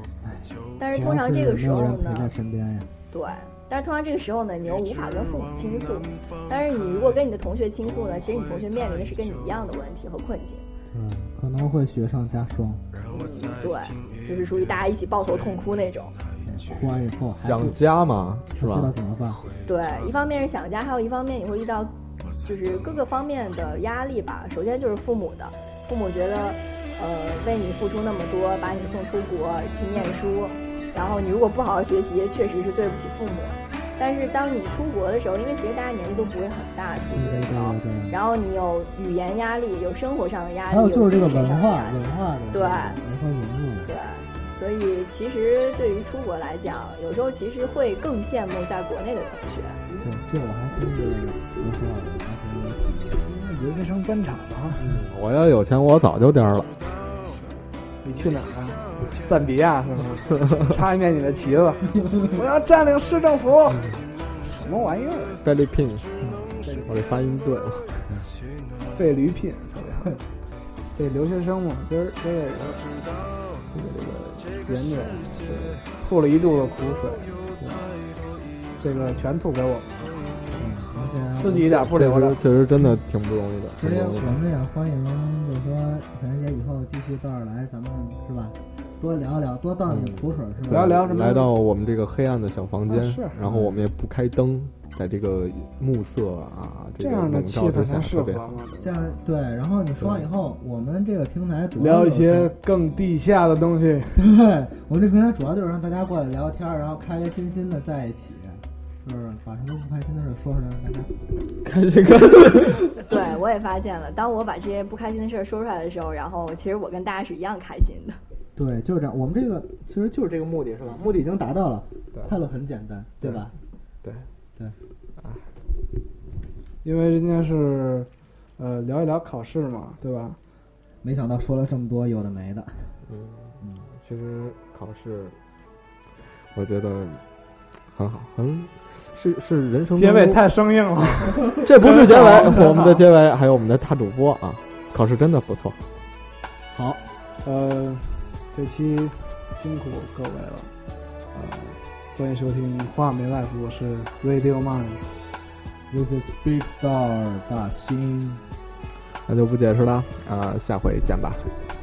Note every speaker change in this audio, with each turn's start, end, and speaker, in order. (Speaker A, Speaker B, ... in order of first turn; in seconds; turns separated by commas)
Speaker A: 0.2-2.9, Speaker B: 0.8-2.3, Speaker B: 3.1-10.6, Speaker A: 10.9-12.8, Speaker B: 13.1-16.1, Speaker A: 16.4-17.8, Speaker C: 17.4-18.9, Speaker A: 18.5-19.4, Speaker B: 19.6-43.0, Speaker A: 37.1-38.1, Speaker A: 40.7-43.9, Speaker B: 43.9-49.8, Speaker A: 49.9-53.2, Speaker D: 53.2-54.8, Speaker C: 54.8-56.7, Speaker D: 58.0-65.4, Speaker C: 63.7-64.0, Speaker C: 65.4-66.0, Speaker A: 66.2-66.5, Speaker D: 66.6-66.9, Speaker C: 66.8-68.0, Speaker D: 68.8-70.2, Speaker D: 70.8-72.8, Speaker C: 73.7-74.2, Speaker D: 73.9-77.3, Speaker D: 78.8-80.1, Speaker A: 80.5-81.9, Speaker D: 81.4-82.4, Speaker C: 81.9-84.4, Speaker A: 83.8-91.0, Speaker C: 89.9-98.6, Speaker D: 90.7-91.5, Speaker D: 92.9-93.4, Speaker A: 93.4-93.8, Speaker D: 97.0-98.9, Speaker A: 98.8-102.5, Speaker D: 101.8-104.2, Speaker A: 104.2-111.1, Speaker C: 111.6-112.9, Speaker B: 113.0-118.2, Speaker A: 118.5-123.5, Speaker C: 125.2-125.4, Speaker D: 126.8-130.4, Speaker A: 131.0-132.9, Speaker C: 133.1-135.4, Speaker A: 133.6-133.8, Speaker C: 136.5-137.2, Speaker C: 137.9-140.4, Speaker D: 139.9-143.0, Speaker C: 141.6-145.8, Speaker A: 146.7-147.0, Speaker D: 147.4-150.7, Speaker D: 151.3-155.1, Speaker A: 155.9-158.4, Speaker C: 159.3-161.5